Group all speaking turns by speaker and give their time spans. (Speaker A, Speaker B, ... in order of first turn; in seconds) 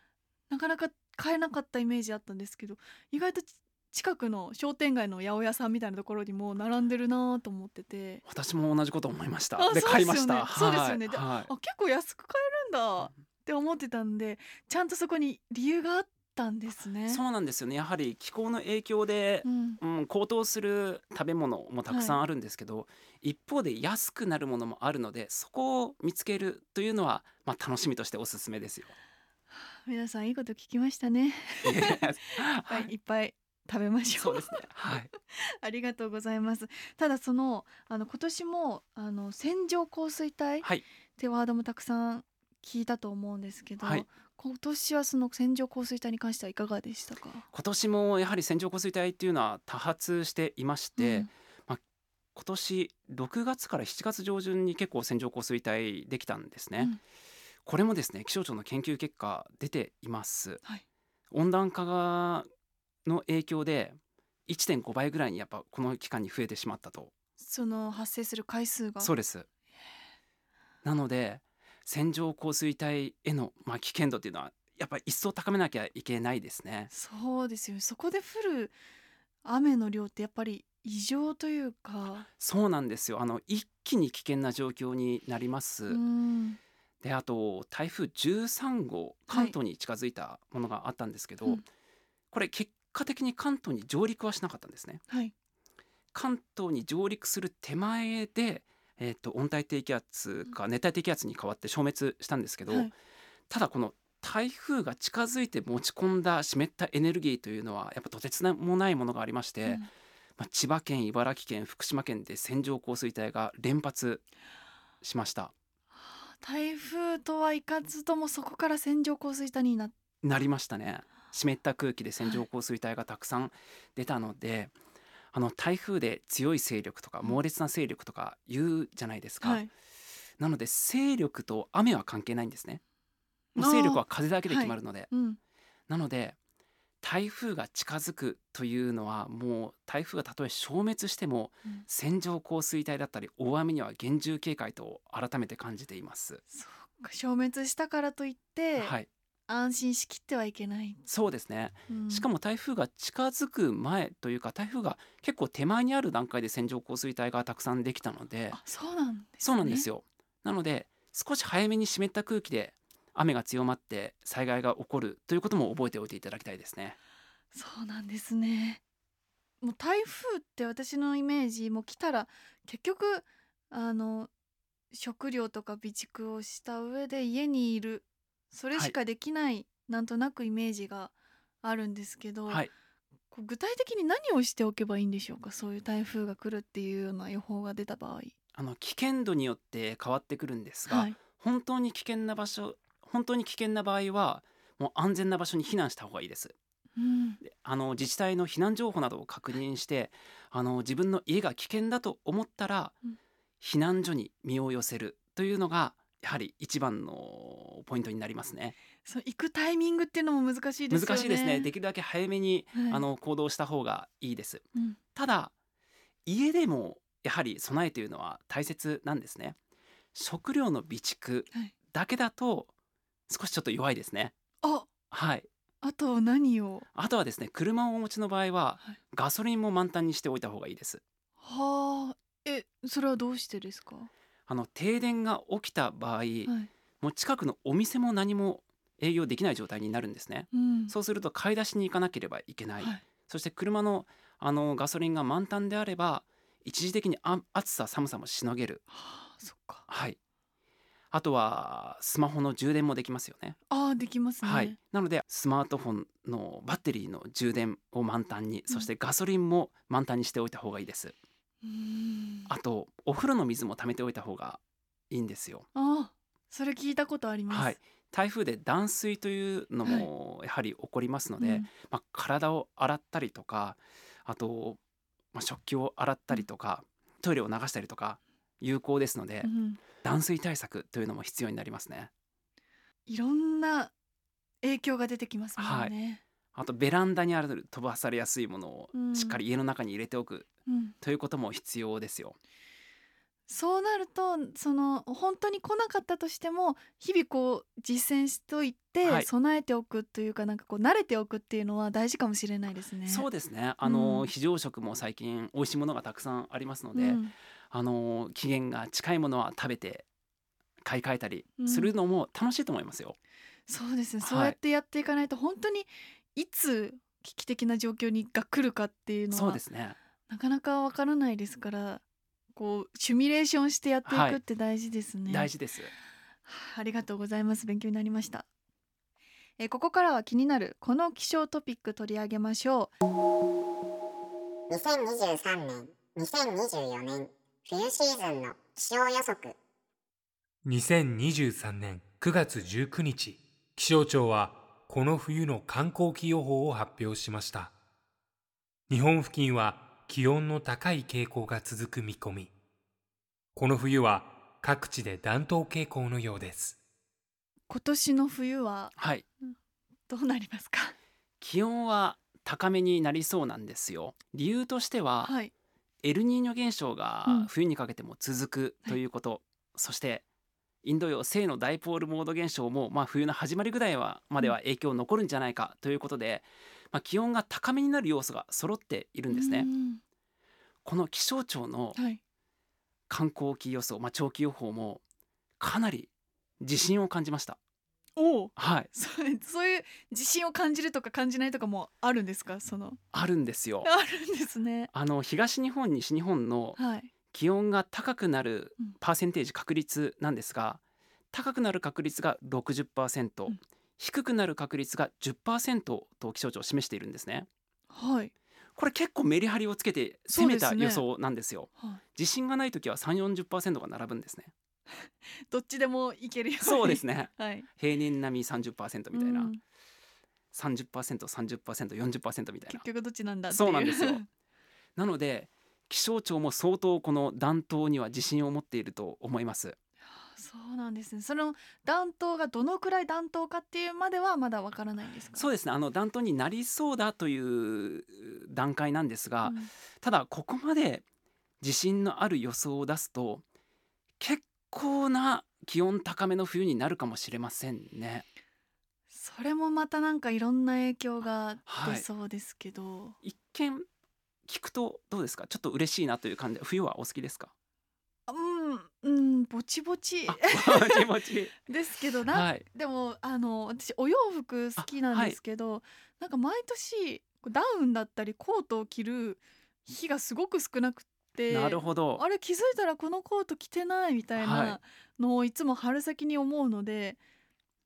Speaker A: 0.5-8.2, 9.6-17.2, 19.4-19.8, 21.9-22.2, 29.5-34.6, 35.3-40.7, 41.2-47.5, 51.0-51.3, 67.4-69.1, 76.9-78.7, 79.4-82.3, 85.9-86.6, 89.3-89.5, 116.0-119.9, 129.4-129.7, 133.6-135.4, 146.5-148.9, 149.5-151.0, 151.9-152.3, 158.5-159.9, 167.5-168.8, 169.6-174.3, 174.9-182.7, 183.3-188.3, 190.9-191.2, 196.9-197.4, 209.0-211.7, 212.7-213.0, 224.6-224.9, 225.8-226.8, 231.4-234.1, 240.5-240.9, 248.9-249.8, 253.7-254.8, 261.6-262.5, 265.7-267.8, 271.4-271.7, 279.4-279.8, 283.1-283.9, 284.6-286.2, 288.9-289.4, 290.7-290.9, 293.5-303.3, 303.8-304.3, 306.9-307.3, 311.6-311.9, 313.7-319.6, 320.3-322.0, 322.5-325.5, 326.5-328.4, 329.6-332.9, 357.7-359.5, 360.1-360.9, 365.2-365.5, 379.3-380.0, 381.9-382.2, 388.2-393.0, 393.8-394.9, 396.8-397.1, 407.9-408.3, 410.3-411.0, 414.9-417.7, 419.1-419.6, 422.7-424.2, 430.1-435.5, 439.4-439.7, 449.1-453.2, 458.3-461.1, 461.6-477.2
Speaker B: 8.2-11.5, 17.1-28.9, 31.6-32.9, 34.2-35.1, 43.8-44.1, 47.5-51.8, 52.3-56.9, 57.6-60.6, 61.3-62.5, 63.0-67.1, 69.0-69.5, 70.8-76.9, 82.4-86.0, 87.0-91.6, 92.3-95.0, 96.1-102.9, 103.5-109.8, 110.4-114.2, 115.0-115.5, 120.2-124.7, 125.3-129.6, 130.4-132.8, 133.5-135.1, 135.9-136.3, 137.0-146.4, 148.8-149.1, 151.1-158.6, 159.4-167.0, 188.5-196.5, 197.4-203.0, 203.6-208.8, 210.9-215.5, 216.2-219.6, 220.1-222.7, 223.3-224.3, 225.1-225.5, 226.9-231.0, 234.5-248.8, 249.9-250.2, 251.1-253.6, 254.4-261.1, 262.5-265.7, 267.5-274.8, 275.3-282.1, 285.6-285.9, 286.5-290.5, 291.0-292.4, 299.0-299.3, 303.1-310.1, 310.8-313.2, 314.2-314.6, 319.3-320.0, 324.1-324.4, 325.3-325.9, 359.0-359.2, 361.4-365.3, 366.0-370.2, 370.8-379.7, 380.8-382.0, 383.1-385.0, 385.6-386.1, 386.6-387.6, 388.6-388.9, 393.1-393.9, 394.9-396.8, 397.3-400.8, 401.3-407.5, 408.8-414.5, 416.6-419.5, 420.5-422.8, 423.5-424.2, 425.0-429.8, 435.4-441.0, 441.6-443.4, 444.2-448.3, 451.7-452.0, 453.2-453.8, 454.5-457.5, 460.3-461.6, 462.3-462.6, 464.8-465.4, 471.5-472.2, 474.4-474.8
Speaker C: 334.7-339.6
Speaker D: 340.6-347.7, 348.9-352.5, 353.5-356.8